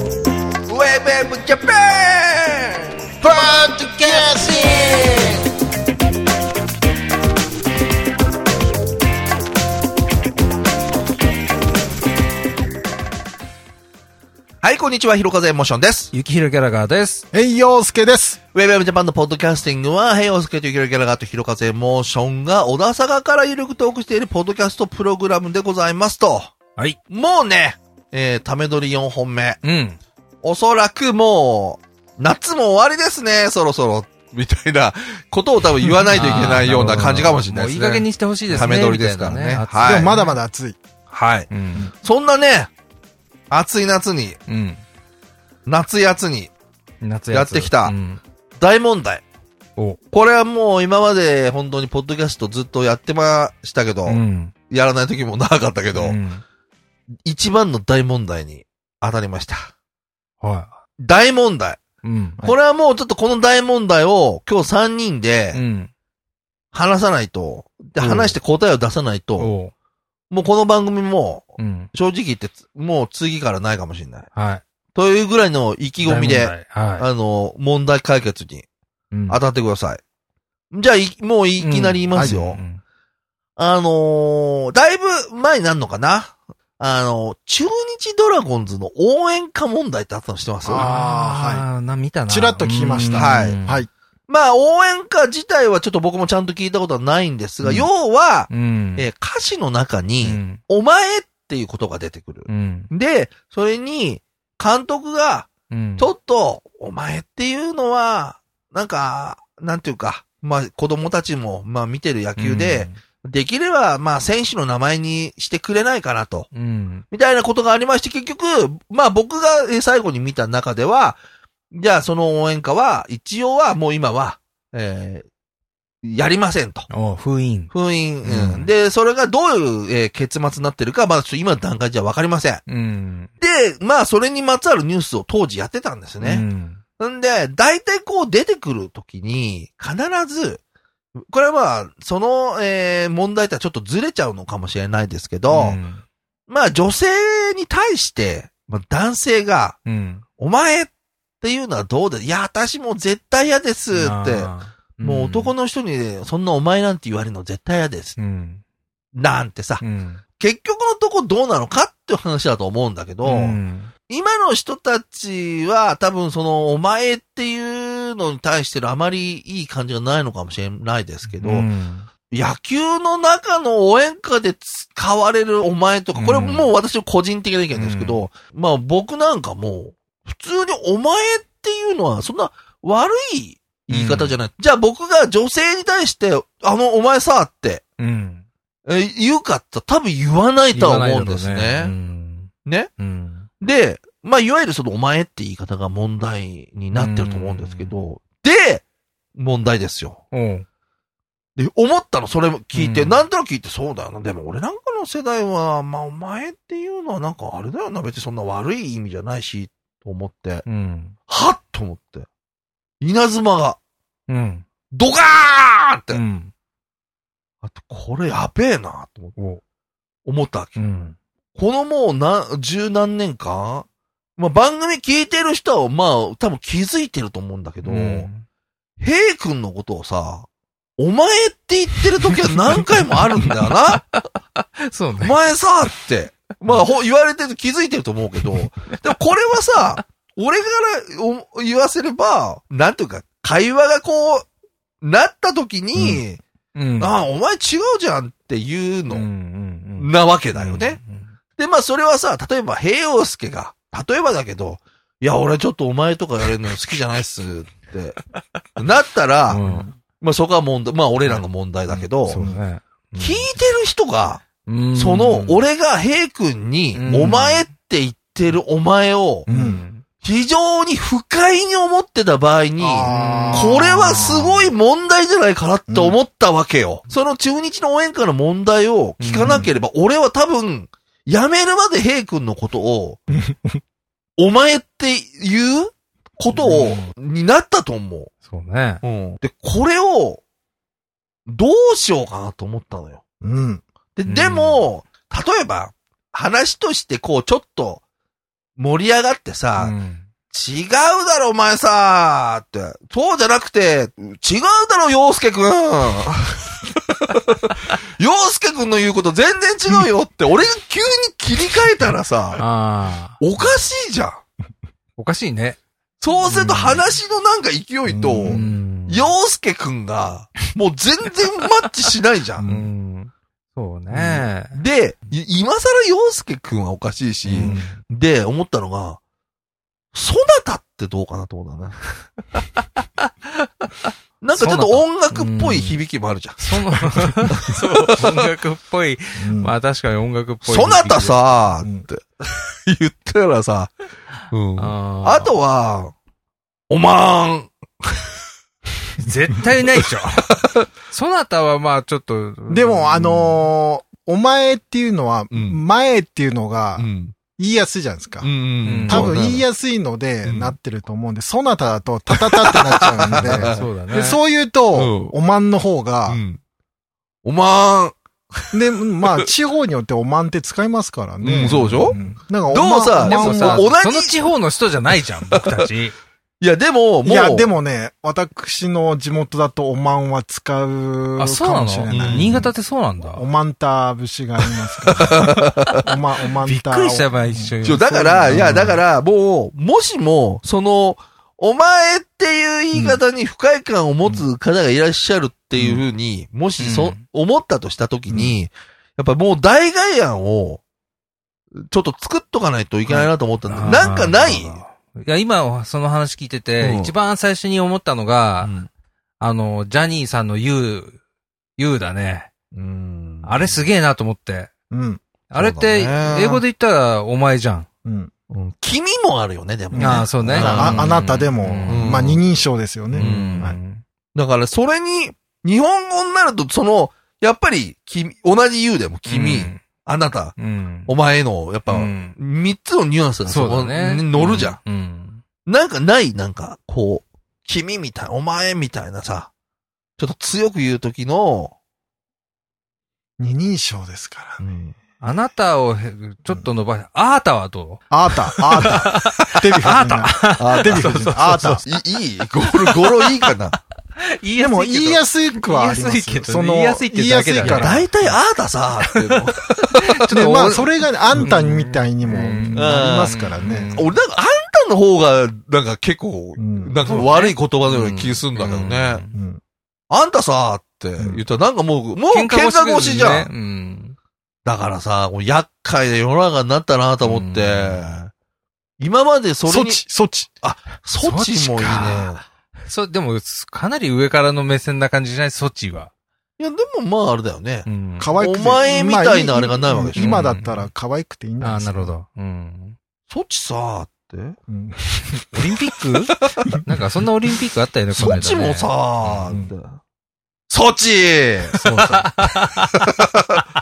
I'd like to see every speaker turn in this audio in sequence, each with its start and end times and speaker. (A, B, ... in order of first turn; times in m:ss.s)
0:00.7-0:02.9 A
0:14.6-0:16.1 A
0:16.1-0:17.2 B
0:17.3-0:18.4 C
0:18.5-0:26.5 A
0:27.1-0:29.6 A
0:29.6-0:30.0 B
0:30.4-0:40.1 A
0:35.8-0:40.4 B
0:39.8-0:40.8 C
0:41.1-0:41.5 A
0:41.5-0:41.9 B
0:42.0-0:42.7 A
0:43.5-0:44.4 A
0:44.5-0:44.8 B
0:45.7-0:46.5 A
0:47.0-0:48.2 B
0:47.3-0:47.9 A
0:48.6-0:49.2 A
0:50.1-0:56.2 A
0:54.0-0:54.5 B
0:55.9-0:56.4 B
0:57.2-0:59.7 A
1:00.4-1:00.7 B
1:01.0-1:01.8 A
1:02.0-1:02.4 B
1:02.4-1:05.6 A
1:05.5-1:05.9 B
1:06.7-1:09.5 A
1:08.0-1:08.4 B
1:09.4-1:09.7 B
1:10.3-1:14.3 A
1:11.6-1:11.9 B
1:14.3-1:14.6 B
1:14.9-1:18.6 A
1:16.0-1:17.1 B
1:19.1-1:19.4 B
1:19.3-1:20.0 A
1:20.7-1:22.6 A
1:21.6-1:22.8 B
1:22.2-1:22.4 C
1:23.6-1:30.8 A
1:30.6-1:31.6 C
1:30.7-1:33.8 B
1:32.3-1:33.9 C
1:33.1-1:33.6 A
1:34.3-1:56.5 A
1:38.5-1:39.1 B
1:40.2-1:40.6 B
1:42.5-1:42.9 B
1:45.7-1:46.1 B
1:52.4-1:53.0 B
1:56.5-1:57.0 B
1:57.1-2:01.2 A
2:01.7-2:05.2 A
2:06.0-2:06.9 A
2:06.9-2:07.7 B
2:07.7-2:12.6 A
2:08.2-2:08.7 B
2:12.7-2:13.3 B
2:13.4-2:16.4 A
2:16.2-2:16.8 B
2:17.0-2:20.6 A
2:21.3-2:25.8 A
2:25.5-2:26.0 B
2:26.5-2:29.8 A
2:29.8-2:30.2 B
2:30.4-2:38.2 A
2:33.9-2:35.5 B
2:38.2-2:38.6 B
2:39.1-2:39.8 A
2:39.8-2:40.2 B
2:40.4-2:43.6 A
2:43.2-2:43.9 B
2:44.1-2:51.7 A
2:51.3-2:52.1 B
2:52.3-3:07.8 A
2:56.1-2:56.7 B
2:57.7-2:58.2 B
3:03.9-3:04.4 B
3:08.0-3:08.4 B
3:08.8-3:11.9 A
3:10.7-3:13.5 B
3:12.6-3:12.9 A
3:13.6-3:18.8 A
3:16.9-3:17.9 B
3:19.4-3:20.2 A
3:20.3-3:20.6 B
3:21.6-3:30.6 A
3:22.7-3:23.2 B
3:30.6-3:31.1 B
3:31.3-3:32.3 A
3:33.0-3:33.8 A
3:34.3-3:34.6 B
3:34.9-3:36.2 A
3:36.1-3:36.5 B
3:37.6-3:39.3 A
3:40.2-3:40.8 A
3:40.8-3:41.2 B
3:41.6-3:43.8 A
3:44.4-3:48.3 A
3:47.8-3:48.4 B
3:49.0-3:54.0 A
3:53.4-3:55.4 B
3:55.2-4:04.5 A
4:05.0-4:06.4 A
4:06.0-4:06.2 C
4:06.7-4:07.1 B
4:07.0-4:09.2 A
4:09.1-4:11.3 B
4:10.0-4:11.0 A
4:11.6-4:18.2 A
4:18.8-4:19.6 A
4:19.5-4:19.9 B
4:19.6-4:19.9 C
4:20.2-4:22.4 A
4:21.9-4:22.6 C
4:22.3-4:23.5 B
4:23.2-4:29.5 A
4:24.6-4:25.6 B
4:26.9-4:27.6 B
4:29.5-4:30.0 B
4:29.5-4:29.8 C
4:30.2-4:43.2 A
4:32.8-4:34.6 C
4:33.0-4:34.4 B
4:35.9-4:36.2 C
4:39.2-4:39.6 B
4:43.4-4:43.8 C
4:44.4-4:48.3 A
4:46.5-4:47.1 B
4:48.4-4:49.0 B
4:49.0-4:50.4 A
4:51.4-4:53.2 A
4:53.4-4:53.8 C
4:54.2-4:58.0 A
4:54.3-4:54.8 B
4:58.8-4:59.9 A
4:59.8-5:00.3 B
5:00.5-5:12.6 A
5:12.6-5:13.4 B
5:13.4-5:14.4 A
5:15.2-5:15.8 B
5:16.2-5:22.7 A
5:16.5-5:17.0 B
5:18.1-5:18.7 C
5:18.5-5:19.3 B
5:22.6-5:22.9 C
5:22.6-5:24.8 B
5:24.1-5:29.2 A
5:27.4-5:28.0 B
5:27.6-5:27.9 C
5:30.1-5:32.2 A
5:34.4-5:38.4 A
5:34.5-5:36.0 B
5:36.6-5:41.7 B
5:39.4-5:39.7 C
5:40.6-5:43.9 A
5:44.5-5:46.1 A
5:44.8-5:45.5 B
5:46.9-5:48.2 A
5:49.2-5:53.7 B
5:50.5-5:50.8 A
5:52.7-5:58.5 C
5:55.5-5:55.8 A
5:57.0-5:57.3 A
5:58.4-5:59.6 A
5:58.8-5:59.4 B
5:59.1-6:06.4 C
6:00.4-6:00.8 A
6:02.3-6:03.8 A
6:03.4-6:04.4 B
6:04.9-6:05.3 A
6:06.3-6:06.6 A
6:07.4-6:09.4 A
6:08.7-6:13.9 C
6:11.4-6:12.2 A
6:11.7-6:12.3 B
6:12.7-6:14.4 A
6:13.2-6:16.1 B
6:15.5-6:15.8 A
6:16.6-6:17.7 A
6:17.2-6:29.0 C
6:21.4-6:23.4 B
6:22.1-6:22.6 A
6:25.0-6:26.1 A
6:26.6-6:29.0 B
6:27.8-6:40.8 A
6:35.8-6:36.0 C
6:36.8-6:37.2 B
6:41.8-6:44.8 A
6:43.1-6:48.7 B
6:46.8-6:47.1 A
6:48.6-6:48.9 A
6:49.4-6:51.2 B
6:51.8-6:52.5 B
6:52.7-6:53.8 A
6:53.4-6:54.7 B
6:54.9-6:55.2 C
6:55.5-6:57.9 B
6:55.6-6:56.6 A
6:58.0-6:58.3 C
6:58.5-7:01.1 A
6:59.9-7:03.8 C
7:00.0-7:02.4 B
7:01.9-7:02.4 A
7:03.1-7:04.0 B
7:03.2-7:03.7 A
7:04.3-7:10.5 A
7:09.2-7:09.8 B
7:10.6-7:11.1 B
7:11.0-7:14.8 A
7:11.9-7:12.4 B
7:13.4-7:15.4 B
7:15.6-7:19.5 A
7:20.2-7:21.7 A
7:23.4-7:24.8 C
7:24.6-7:24.9 A
7:25.2-7:31.8 B
7:28.1-7:31.8 C
7:30.4-7:33.8 A
7:32.8-7:33.6 B
7:34.2-7:38.4 B
7:34.6-7:38.1 C
7:37.6-7:40.9 A
7:39.0-7:39.4 B
7:39.9-7:40.8 B
7:40.3-7:43.9 C
7:41.4-7:44.1 B
7:42.7-7:49.2 A
7:46.6-7:47.0 C
7:47.0-7:49.3 B
7:49.3-7:49.6 C
7:50.1-7:53.5 A
7:51.2-7:51.4 C
7:52.3-7:54.2 B
7:54.6-7:58.3 A
7:57.2-7:58.2 B
7:59.0-8:00.0 A
7:59.6-8:00.5 C
8:00.6-8:02.4 A
8:01.2-8:02.3 B
8:02.8-8:06.1 B
8:06.6-8:10.4 A
8:07.8-8:08.4 B
8:08.2-8:12.1 C
8:10.2-8:10.9 B
8:11.6-8:13.0 B
8:13.3-8:14.6 A
8:14.7-8:15.3 C
8:15.5-8:19.5 B
8:18.2-8:20.0 A
8:20.7-8:21.8 A
8:21.7-8:22.3 C
8:21.8-8:22.9 B
8:22.9-8:23.6 A